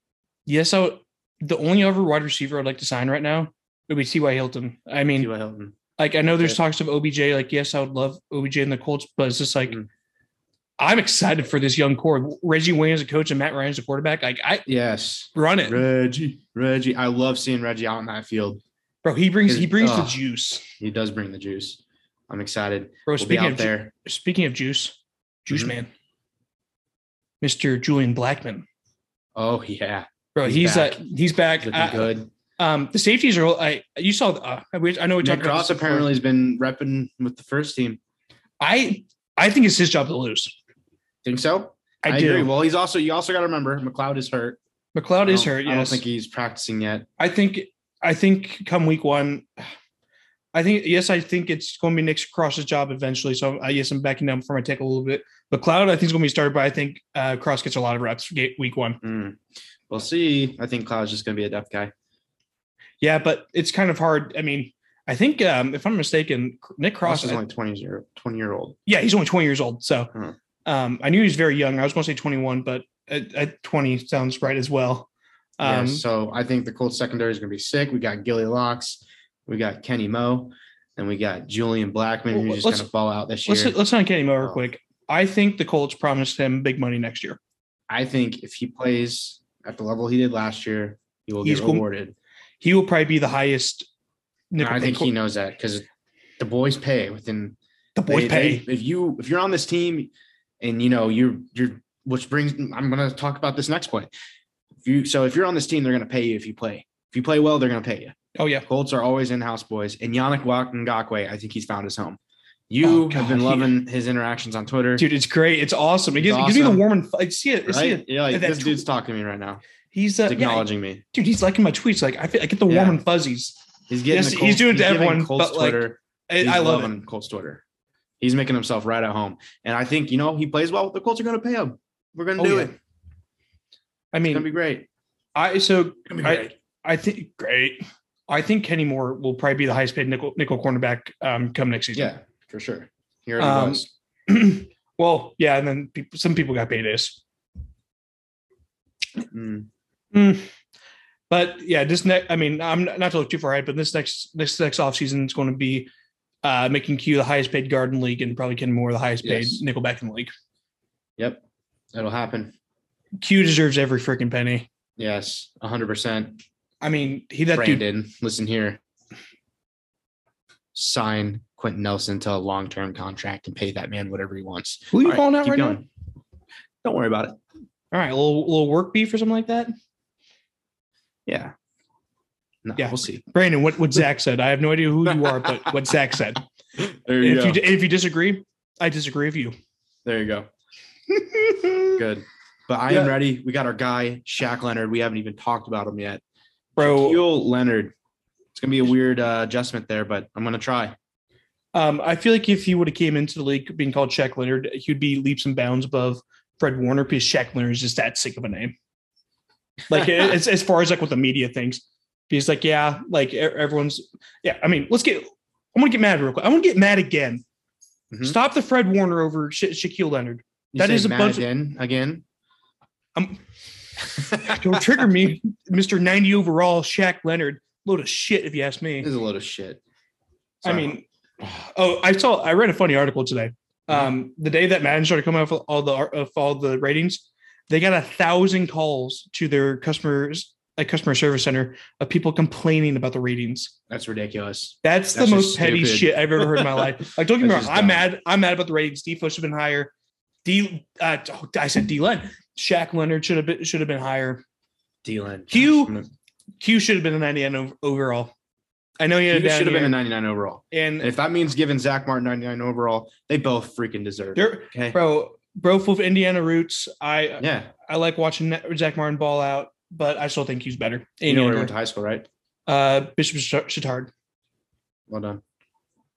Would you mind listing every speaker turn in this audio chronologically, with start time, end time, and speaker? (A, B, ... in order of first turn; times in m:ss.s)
0:00.4-0:05.3 A
0:05.2-0:05.8 B
0:06.0-0:09.8 A
0:10.8-0:14.6 A
0:14.7-0:18.6 B
0:15.3-0:15.8 A
0:19.0-0:20.6 A
0:19.5-0:20.2 B
0:20.8-0:23.9 B
0:23.1-0:25.9 A
0:27.4-0:28.6 A
0:29.3-0:31.0 B
0:30.3-0:36.1 A
0:31.6-0:32.3 B
0:35.2-0:38.0 B
0:38.6-0:40.5 A
0:41.2-0:44.6 B
0:42.0-0:42.5 A
0:44.9-0:46.0 A
0:45.2-0:47.1 B
0:47.2-0:49.5 A
0:50.5-0:59.0 A
0:59.0-0:59.4 B
0:59.9-1:01.9 B
1:03.0-1:07.4 A
1:07.0-1:08.8 B
1:08.9-1:10.1 A
1:10.6-1:15.1 A
1:15.6-1:16.0 A
1:15.6-1:23.8 B
1:22.3-1:22.9 A
1:23.4-1:27.4 A
1:27.9-1:32.1 B
1:31.4-1:31.8 A
1:32.6-1:33.9 A
1:34.5-1:35.1 A
1:34.6-1:35.8 B
1:36.4-1:37.6 B
1:38.0-1:38.6 A
1:38.1-1:40.1 B
1:40.6-1:44.1 B
1:44.8-1:52.2 B
1:48.3-1:48.6 A
1:52.7-1:55.0 B
1:52.8-1:53.7 A
1:55.0-1:58.8 A
1:56.2-1:56.8 B
1:57.6-1:59.6 B
1:59.9-2:03.5 A
2:00.3-2:01.0 B
2:02.7-2:03.0 B
2:03.9-2:07.6 B
2:04.1-2:06.9 A
2:08.2-2:12.8 B
2:12.4-2:12.7 A
2:14.1-2:14.5 A
2:14.2-2:14.9 B
2:15.3-2:22.1 A
2:16.1-2:16.5 B
2:21.9-2:23.9 B
2:23.4-2:27.2 A
2:29.3-2:29.7 B
2:30.1-2:30.5 A
2:31.3-2:35.9 A
2:36.4-2:40.3 A
2:39.2-2:39.6 B
2:41.9-2:42.5 B
2:43.2-2:44.7 A
2:45.0-2:46.4 B
2:46.8-2:47.8 A
2:47.5-2:48.8 B
2:50.7-2:55.9 B
2:54.9-2:55.8 A
2:56.8-2:57.4 B
2:57.9-2:59.7 A
3:01.3-3:01.5 B
3:02.6-3:03.2 B
3:02.8-3:06.4 A
3:05.1-3:05.7 B
3:06.8-3:07.6 B
3:07.2-3:09.5 A
3:10.0-3:10.5 B
3:11.1-3:12.0 A
3:12.0-3:16.2 B
3:16.8-3:17.2 A
3:16.8-3:17.9 B
3:18.5-3:21.0 B
3:21.7-3:28.7 A
3:29.9-3:37.4 A
3:38.1-3:38.4 B
3:38.2-3:41.4 A
3:40.7-3:42.2 B
3:44.2-3:44.8 B
3:44.3-3:49.1 A
3:49.0-3:49.8 B
3:50.6-4:03.7 A
3:50.6-3:51.0 B
4:03.9-4:08.1 B
4:04.8-4:09.9 A
4:10.4-4:14.4 A
4:15.0-4:16.1 B
4:15.5-4:15.9 A
4:16.6-4:18.3 A
4:19.0-4:19.9 A
4:19.3-4:25.0 B
4:20.7-4:21.1 A
4:24.4-4:31.7 A
4:27.4-4:27.7 B
4:31.2-4:32.3 B
4:32.7-4:34.1 A
4:35.1-4:35.4 B